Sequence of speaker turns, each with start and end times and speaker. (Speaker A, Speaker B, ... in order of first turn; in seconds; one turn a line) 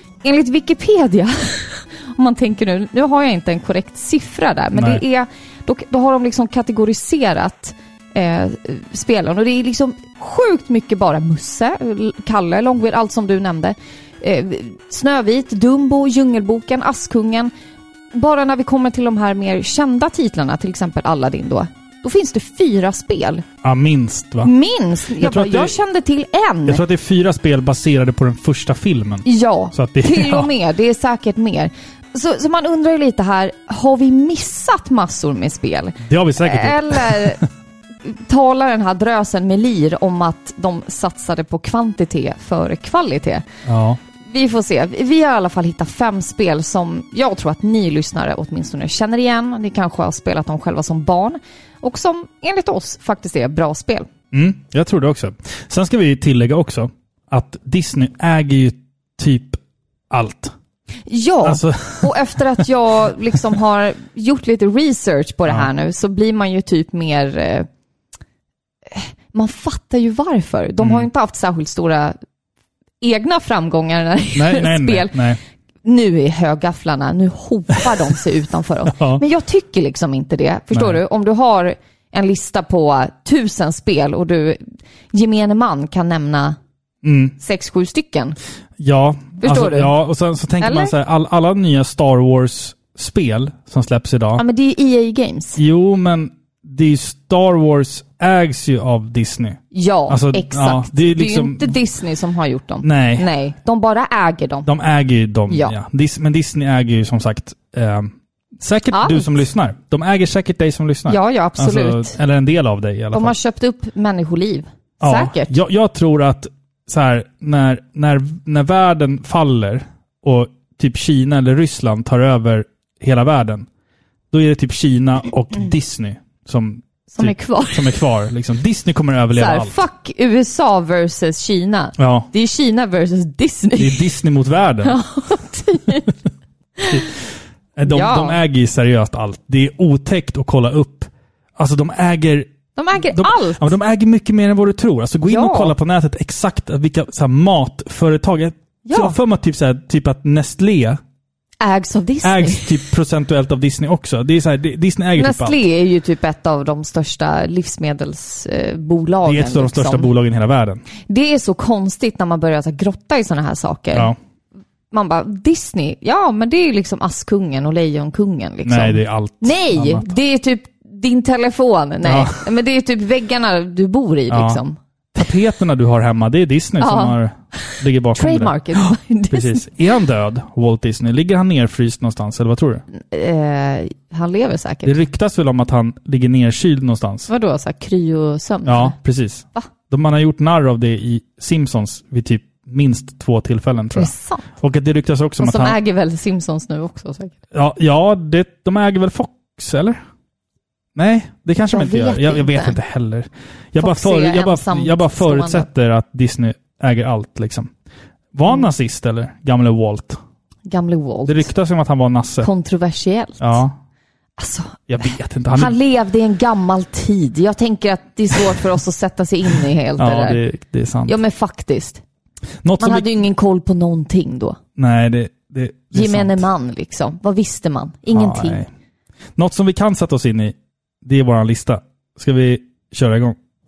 Speaker A: 0.2-17.5
Speaker B: 4.7-5.0
Speaker A: 18.1-23.4
Speaker B: 23.6-24.5
Speaker A: 24.4-26.8
Speaker B: 25.2-25.7
Speaker B: 26.7-30.5
Speaker A: 29.2-37.4
Speaker B: 36.0-37.4
Speaker A: 38.0-43.5
Speaker B: 43.6-44.0
Speaker A: 44.2-54.1
Speaker B: 54.3-59.6
Speaker B: 60.1-60.5
Speaker A: 61.0-67.7
Speaker B: 61.4-62.1
Speaker A: 68.9-72.2
Speaker B: 70.8-71.1
Speaker A: 73.0-75.2
Speaker B: 74.3-75.4
Speaker A: 75.8-86.6
Speaker B: 78.8-79.2
Speaker B: 80.7-81.0
Speaker B: 87.0-87.3
Speaker A: 87.4-88.4
Speaker B: 88.8-94.4
Speaker A: 89.4-89.9
Speaker A: 90.6-90.9
Speaker A: 94.3-95.6
Speaker B: 95.5-101.8
Speaker A: 99.7-104.7
Speaker B: 102.8-103.3
Speaker B: 104.6-113.3
Speaker A: 105.5-105.8
Speaker A: 108.9-109.3
Speaker A: 111.1-112.2
Speaker A: 113.1-115.5
Speaker B: 115.0-123.7
Speaker B: 124.3-129.8
Speaker A: 127.1-127.9
Speaker A: 129.3-134.1
Speaker B: 132.0-132.3
Speaker B: 133.8-135.0
Speaker A: 134.8-136.1
Speaker B: 137.8-151.0
Speaker A: 137.9-138.4
Speaker A: 142.7-143.7
Speaker A: 145.2-145.7
Speaker A: 148.8-149.2
Speaker A: 151.6-152.8
Speaker B: 152.2-155.6
Speaker A: 155.2-160.1
Speaker B: 159.2-160.8
Speaker A: 161.0-164.1
Speaker A: 164.9-174.8
Speaker B: 168.6-170.1
Speaker B: 172.0-172.4
Speaker B: 174.3-174.6
Speaker B: 175.1-182.8
Speaker A: 176.8-177.2
Speaker A: 178.1-179.7
Speaker A: 182.9-184.9
Speaker B: 184.8-187.3
Speaker A: 187.3-188.9
Speaker B: 188.7-195.8
Speaker A: 193.9-194.4
Speaker A: 195.4-197.4
Speaker B: 197.5-200.0
Speaker B: 200.9-207.7
Speaker A: 201.7-202.8
Speaker A: 203.8-205.7
Speaker B: 208.3-210.2
Speaker A: 210.7-211.5
Speaker B: 211.2-212.5
Speaker A: 212.4-213.6
Speaker B: 213.4-213.7
Speaker A: 214.4-214.8
Speaker B: 214.9-215.7
Speaker A: 215.5-220.4
Speaker B: 220.0-221.2
Speaker A: 221.1-222.0
Speaker B: 222.6-223.1
Speaker A: 222.8-224.6
Speaker B: 224.8-226.4
Speaker A: 225.9-228.6
Speaker B: 228.1-228.7
Speaker B: 229.4-233.4